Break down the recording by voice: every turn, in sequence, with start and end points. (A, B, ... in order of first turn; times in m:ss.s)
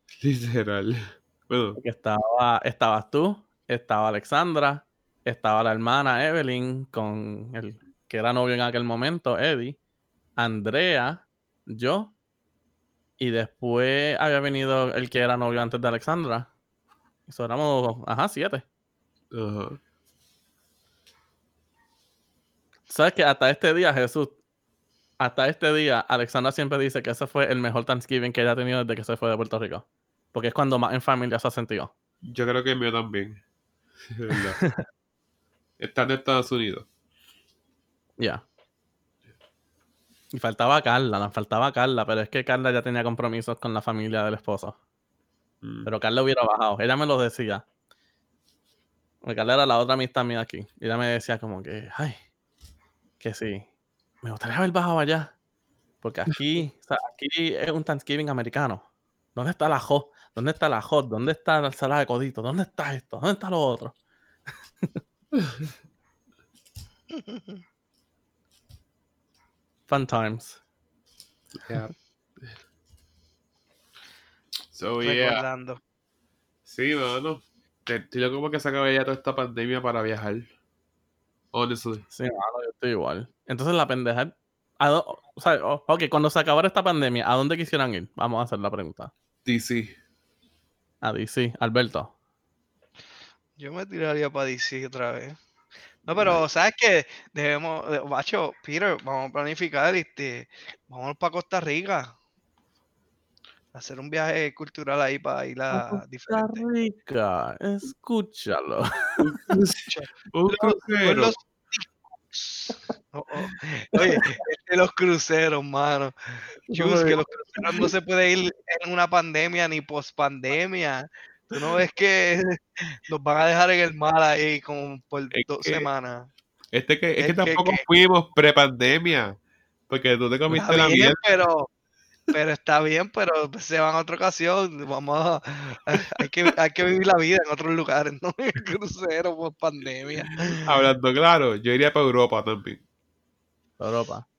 0:00.2-0:01.8 A
0:01.8-0:09.8 B
0:10.4-0:12.1 B
0:13.2-0:16.5 B
0:17.3-0:18.6 B
0:19.3-0:19.8 A
0:22.9-0:24.4 B
0:25.2-0:31.9 B
0:32.3-0:33.4 A
0:34.1-0:34.6 A
0:35.8-0:36.9 A
0:38.2-0:38.4 B
0:40.3-0:44.8 B
0:45.6-0:45.9 A
0:45.8-0:47.6 B
0:49.2-0:52.2 B
0:53.2-0:53.7 B
0:54.2-0:55.3 B
0:56.0-1:03.9 B
1:05.3-1:05.6 A
1:07.1-1:07.6 C
1:09.9-1:10.6 B
1:11.6-1:11.9 A
1:14.7-1:15.4 A
1:15.0-1:15.8 C
1:16.6-1:20.5 A
1:21.5-1:22.0 A
1:22.1-1:29.1 B
1:29.4-1:29.9 A
1:31.0-1:32.1 B
1:33.6-1:35.4 C
1:36.0-1:42.1 C
1:43.7-1:46.6 C
1:45.7-1:49.2 B
1:49.2-1:51.3 A
1:49.9-2:06.3 C
1:54.0-1:54.3 B
1:56.7-1:57.9 B
2:05.3-2:05.9 A
2:06.7-2:09.4 A
2:07.2-2:07.8 C
2:09.9-2:11.2 A
2:10.5-2:11.7 C
2:12.3-2:20.6 C
2:20.6-2:22.8 A
2:23.8-2:24.2 B